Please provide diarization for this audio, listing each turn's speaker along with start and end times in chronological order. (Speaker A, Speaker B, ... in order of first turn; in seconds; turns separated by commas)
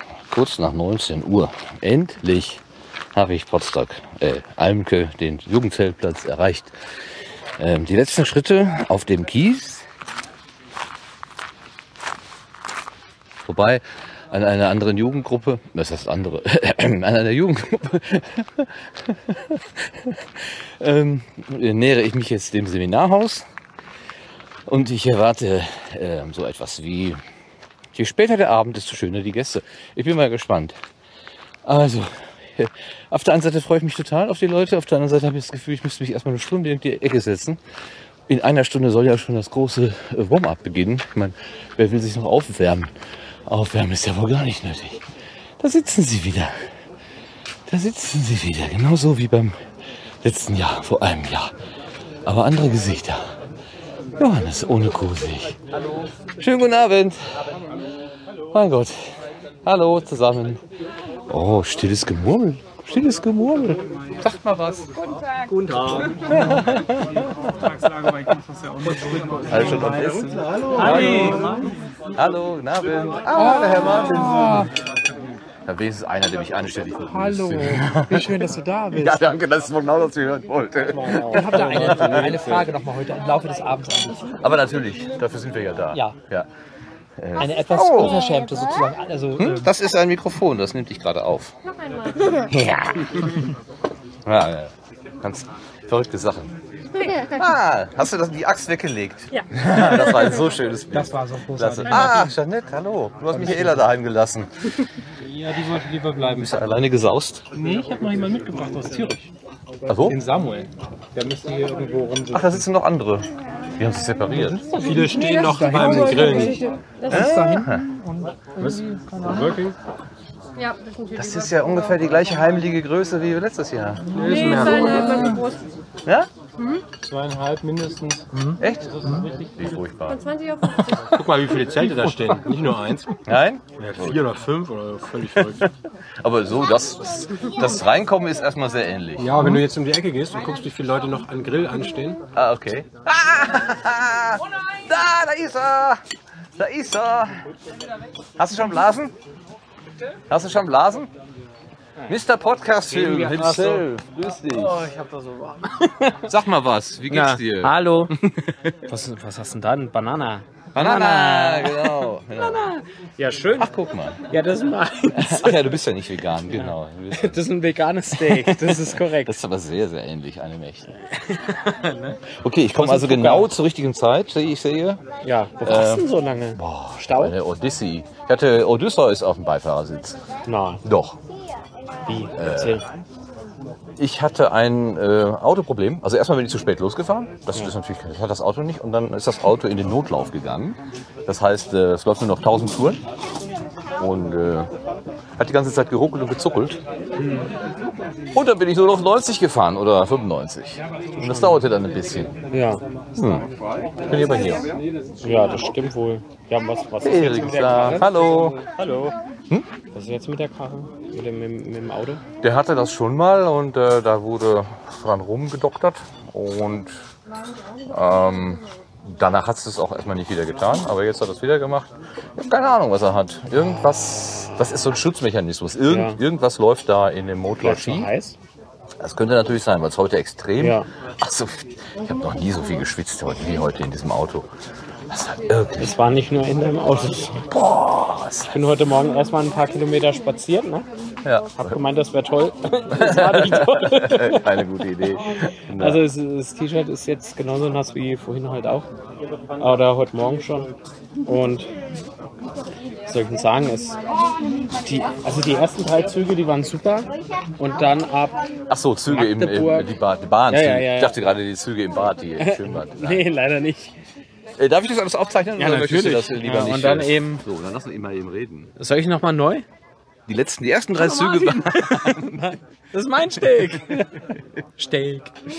Speaker A: 0.3-6.7, Speaker A: 7.6-9.9, Speaker A: 13.5-23.4, Speaker A: 24.7-27.2, Speaker A: 27.9-30.8, Speaker A: 31.7-37.6, Speaker A: 38.3-42.9, Speaker A: 43.5-45.1, Speaker A: 45.6-46.5, Speaker A: 47.7-49.6, Speaker A: 50.2-51.5, Speaker A: 52.3-53.2, Speaker A: 54.2-55.6, Speaker A: 56.4-57.2, Speaker A: 58.5-59.0, Speaker A: 59.6-60.6, Speaker A: 61.3-65.0, Speaker B: 65.4-66.6, Speaker A: 66.3-67.7, Speaker B: 67.7-71.7, Speaker C: 68.8-70.1, Speaker A: 69.5-71.6, Speaker C: 70.9-71.7, Speaker A: 72.2-74.7, Speaker B: 73.4-74.7, Speaker A: 75.7-82.7, Speaker B: 77.1-79.1, Speaker C: 78.1-78.8, Speaker B: 80.9-82.7, Speaker C: 81.2-84.4, Speaker A: 84.4-86.5, Speaker A: 87.2-88.3, Speaker C: 87.4-89.7, Speaker A: 89.4-91.5, Speaker D: 92.5-93.4, Speaker A: 94.2-96.5, Speaker A: 97.0-104.5, Speaker B: 100.9-102.3, Speaker B: 103.3-103.6, Speaker B: 105.2-106.5, Speaker A: 106.3-107.4, Speaker B: 107.5-109.3, Speaker A: 109.9-110.2, Speaker B: 110.0-112.6, Speaker A: 112.3-114.7, Speaker B: 114.5-117.7, Speaker E: 115.0-116.6, Speaker C: 115.7-116.2, Speaker A: 117.1-117.9, Speaker C: 117.2-117.7, Speaker B: 118.6-119.8, Speaker E: 120.6-121.2, Speaker A: 121.1-124.0, Speaker B: 124.1-125.4, Speaker E: 124.2-125.6, Speaker B: 127.0-128.5, Speaker A: 128.6-131.0, Speaker E: 130.3-130.8, Speaker B: 130.9-133.2, Speaker A: 131.8-132.1, Speaker A: 133.2-134.3, Speaker B: 133.8-135.7, Speaker A: 135.4-139.4, Speaker B: 139.2-142.2, Speaker A: 142.3-146.0, Speaker A: 146.6-147.3, Speaker A: 148.4-149.1, Speaker A: 150.3-151.1, Speaker A: 152.1-154.9, Speaker D: 152.9-153.8, Speaker D: 154.7-156.3, Speaker A: 156.3-158.8, Speaker D: 157.1-158.1, Speaker D: 158.9-163.7, Speaker A: 160.8-162.7, Speaker A: 163.6-164.2, Speaker D: 164.3-165.8, Speaker A: 165.1-167.4, Speaker D: 166.5-169.4, Speaker A: 168.1-170.9, Speaker D: 171.0-172.2, Speaker A: 172.3-175.0, Speaker D: 172.7-173.5, Speaker D: 175.2-177.3, Speaker A: 175.6-180.2, Speaker D: 180.5-180.8, Speaker A: 180.8-181.2, Speaker D: 182.1-182.8, Speaker A: 182.4-182.8, Speaker A: 184.0-193.0, Speaker A: 194.0-194.7, Speaker A: 195.4-196.8, Speaker D: 197.2-197.5, Speaker A: 198.3-202.3, Speaker D: 201.1-201.6, Speaker D: 202.5-202.8, Speaker A: 203.2-203.5, Speaker A: 204.1-204.7, Speaker D: 205.2-208.1, Speaker A: 207.0-208.6, Speaker B: 208.8-209.1, Speaker D: 209.9-212.2, Speaker A: 212.4-216.9, Speaker A: 217.8-228.1, Speaker D: 225.9-226.2, Speaker D: 227.6-228.4, Speaker A: 229.0-234.5, Speaker D: 230.6-230.8, Speaker A: 235.1-235.9, Speaker D: 235.8-237.5, Speaker A: 237.5-238.7, Speaker D: 238.5-240.9, Speaker A: 241.2-241.8, Speaker D: 241.6-244.7, Speaker A: 242.9-246.0, Speaker D: 245.8-248.9, Speaker D: 249.6-250.7, Speaker D: 251.2-251.7, Speaker D: 253.1-254.0, Speaker D: 254.8-258.4, Speaker A: 258.7-263.2, Speaker D: 259.1-259.9, Speaker D: 260.5-261.2, Speaker D: 262.4-264.0, Speaker A: 264.6-268.7, Speaker D: 265.6-267.4, Speaker D: 268.8-269.6, Speaker A: 270.3-272.6, Speaker D: 271.0-275.3